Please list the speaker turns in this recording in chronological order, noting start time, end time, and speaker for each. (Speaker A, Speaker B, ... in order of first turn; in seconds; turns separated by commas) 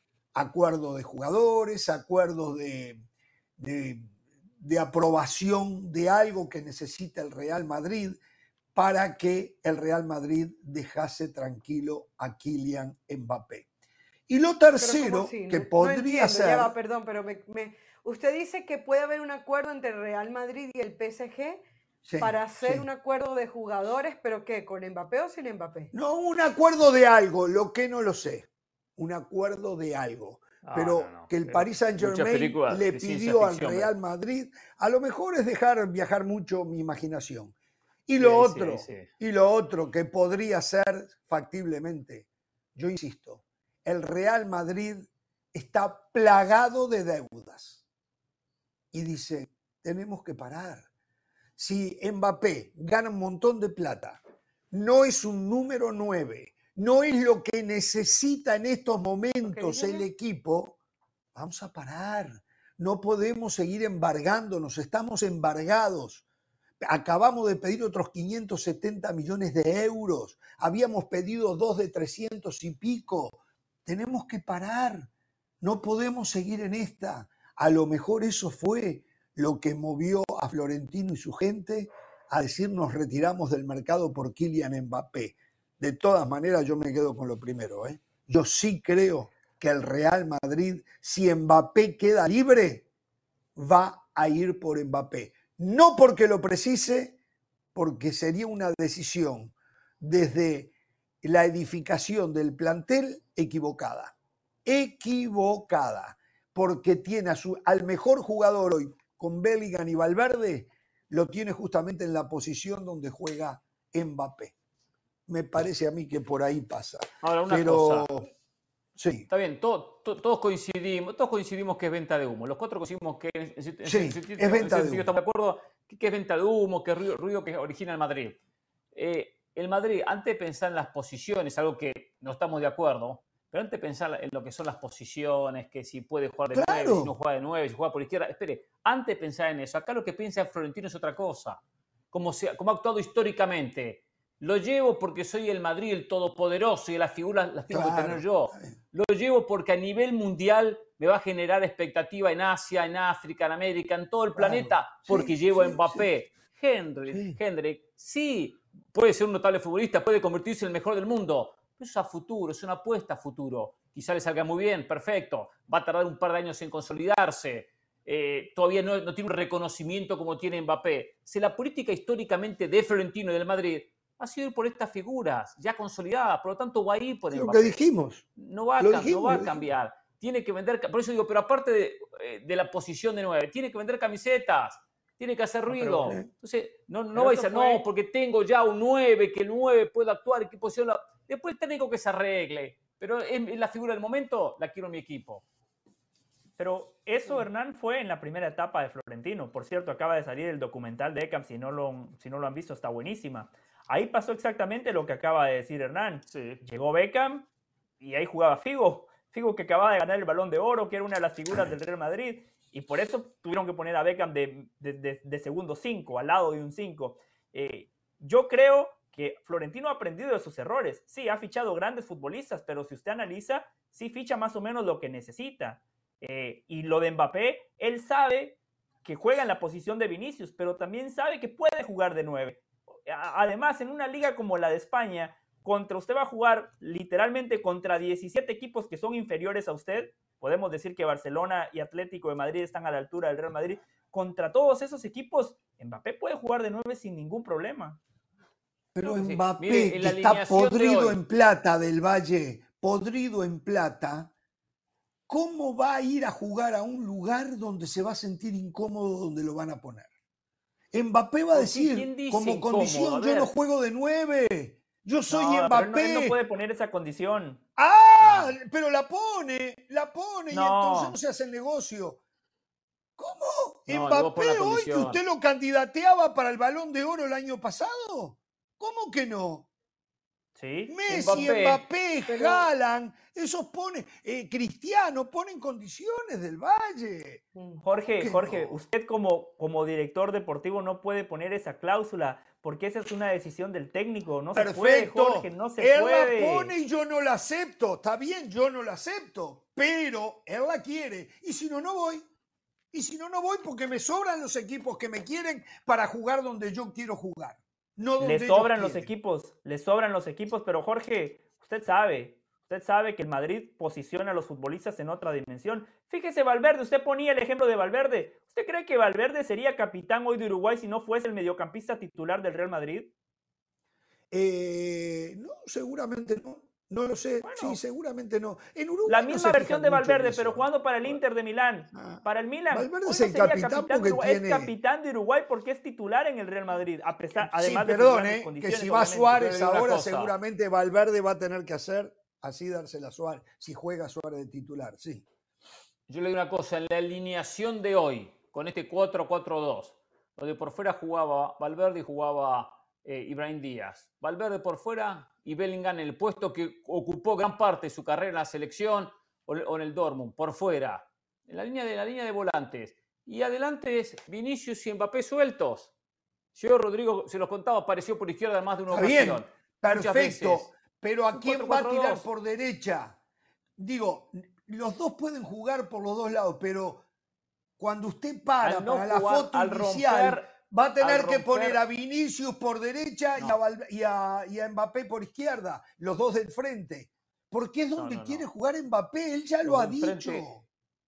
Speaker A: 0.3-3.0, Speaker A: 3.6-8.2, Speaker A: 8.8-13.7, Speaker A: 14.3-16.7, Speaker B: 14.8-21.6, Speaker A: 22.0-22.9, Speaker B: 22.2-25.9, Speaker A: 25.9-37.5, Speaker C: 30.6-33.9, Speaker A: 38.1-47.8, Speaker C: 38.2-39.1, Speaker A: 48.9-50.9, Speaker A: 51.6-60.8, Speaker B: 59.4-60.0, Speaker A: 61.4-66.2, Speaker A: 66.8-75.1, Speaker A: 75.6-92.9, Speaker A: 93.6-97.2, Speaker A: 97.8-100.7, Speaker A: 101.2-104.1, Speaker A: 104.7-114.5, Speaker A: 115.3-118.3, Speaker C: 117.2-118.1, Speaker A: 119.0-119.3, Speaker C: 119.3-128.4, Speaker A: 123.8-125.1, Speaker C: 128.9-141.6, Speaker A: 136.5-137.1, Speaker C: 142.1-177.8, Speaker A: 147.7-148.8, Speaker A: 154.4-156.1, Speaker A: 157.1-157.4, Speaker A: 177.3-178.2, Speaker C: 178.4-195.4, Speaker A: 178.8-179.7, Speaker A: 185.7-186.3, Speaker D: 187.2-187.8, Speaker D: 196.6-207.5, Speaker C: 206.3-206.6, Speaker D: 208.0-248.0, Speaker A: 248.9-254.3, Speaker C: 249.0-251.2, Speaker A: 255.3-260.1, Speaker A: 260.9-266.4, Speaker C: 261.5-263.5, Speaker D: 265.3-267.6, Speaker A: 267.8-272.2, Speaker C: 268.2-268.5, Speaker D: 270.5-271.2, Speaker A: 273.2-279.7, Speaker C: 273.9-275.2, Speaker D: 280.6-280.9, Speaker A: 280.9-287.4, Speaker C: 281.1-281.8, Speaker B: 282.3-282.6, Speaker B: 287.6-287.8, Speaker D: 287.8-296.7, Speaker A: 288.2-288.8, Speaker A: 294.5-302.3, Speaker A: 302.9-309.1, Speaker D: 308.2-323.1, Speaker A: 324.3-331.2, Speaker D: 327.4-327.8, Speaker D: 329.1-339.4, Speaker A: 331.9-334.7, Speaker A: 337.4-345.2, Speaker C: 339.4-340.4, Speaker C: 346.1-365.9, Speaker C: 366.5-370.7, Speaker A: 368.9-373.2, Speaker C: 371.3-372.3, Speaker A: 373.8-377.1, Speaker A: 377.8-390.6, Speaker C: 378.6-380.5, Speaker C: 381.0-381.8, Speaker C: 387.9-388.5, Speaker C: 389.6-390.5